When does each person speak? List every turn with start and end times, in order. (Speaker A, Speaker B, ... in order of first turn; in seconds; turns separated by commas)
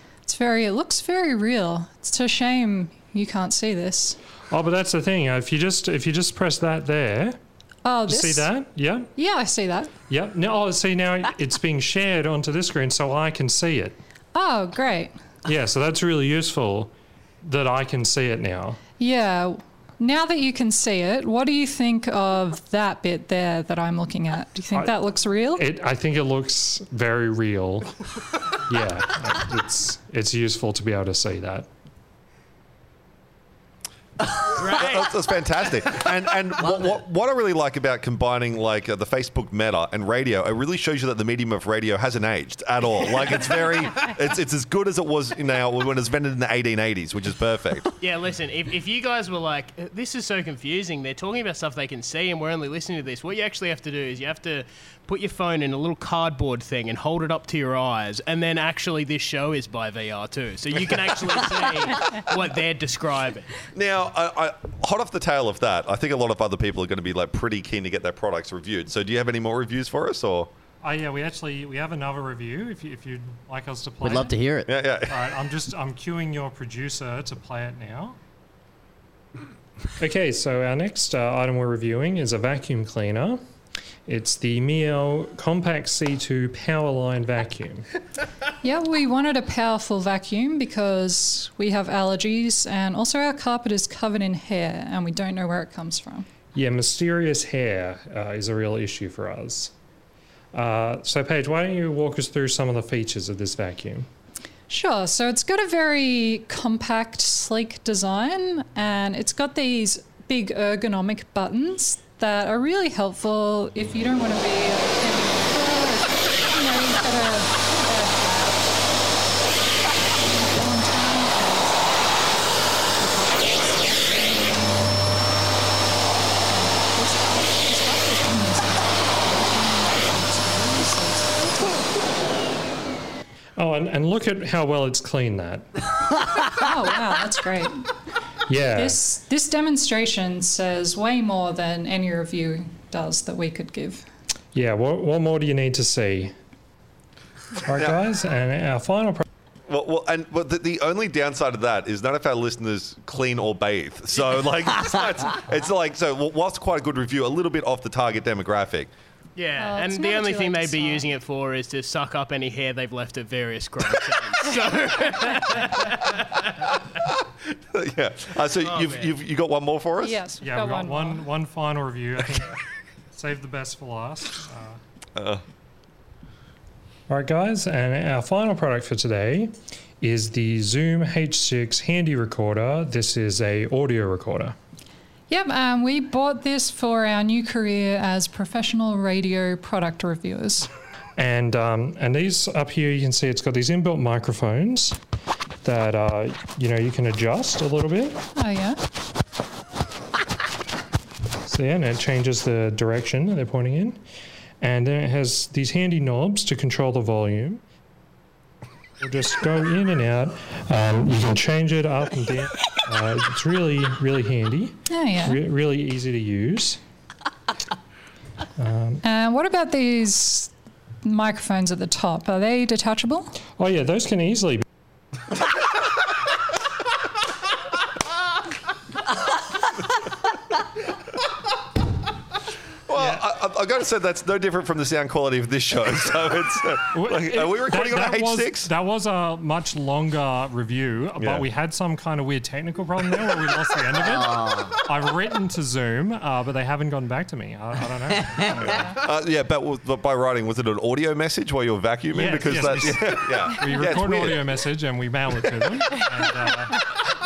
Speaker A: 0.2-4.2, Speaker B: 4.5-7.4, Speaker A: 7.8-8.5, Speaker B: 8.1-9.1, Speaker A: 9.2-9.9, Speaker B: 10.1-14.0, Speaker A: 14.3-15.1, Speaker B: 15.4-18.8, Speaker A: 19.0-25.6, Speaker B: 25.6-27.9, Speaker B: 28.7-31.7, Speaker C: 34.5-47.9, Speaker D: 34.6-35.0, Speaker E: 36.6-37.0, Speaker D: 48.0-63.5, Speaker C: 63.7-70.5, Speaker B: 70.8-74.3, Speaker E: 74.0-74.7, Speaker C: 74.7-75.3, Speaker B: 75.1-78.2, Speaker B: 80.0-83.4, Speaker B: 84.1-87.8, Speaker A: 88.6-96.2, Speaker B: 96.5-99.7, Speaker B: 100.5-104.1, Speaker A: 104.7-118.9, Speaker A: 120.0-122.3, Speaker A: 122.9-124.8, Speaker A: 126.5-132.0, Speaker B: 133.6-135.7, Speaker A: 136.5-137.8, Speaker B: 138.5-139.0, Speaker A: 138.7-144.0, Speaker B: 144.5-146.3, Speaker B: 147.6-149.2, Speaker C: 149.7-158.9, Speaker D: 159.3-166.8, Speaker A: 159.6-161.0, Speaker C: 167.0-170.2, Speaker D: 168.6-169.1, Speaker A: 170.0-171.3, Speaker B: 170.4-172.6, Speaker B: 173.1-174.8, Speaker C: 175.2-175.4, Speaker B: 177.1-184.6, Speaker A: 185.3-190.7, Speaker B: 191.2-195.0, Speaker B: 195.6-198.2, Speaker A: 198.3-198.8, Speaker B: 201.5-204.0, Speaker B: 204.6-207.6, Speaker B: 209.0-216.8, Speaker A: 214.9-215.4, Speaker B: 218.6-219.0, Speaker A: 219.0-220.5, Speaker A: 221.0-223.4, Speaker B: 223.6-224.6, Speaker C: 232.9-238.7, Speaker B: 233.0-233.2, Speaker B: 236.9-248.9, Speaker C: 241.2-241.4, Speaker E: 244.0-244.8, Speaker E: 248.2-248.5, Speaker C: 248.6-254.5, Speaker B: 252.1-256.8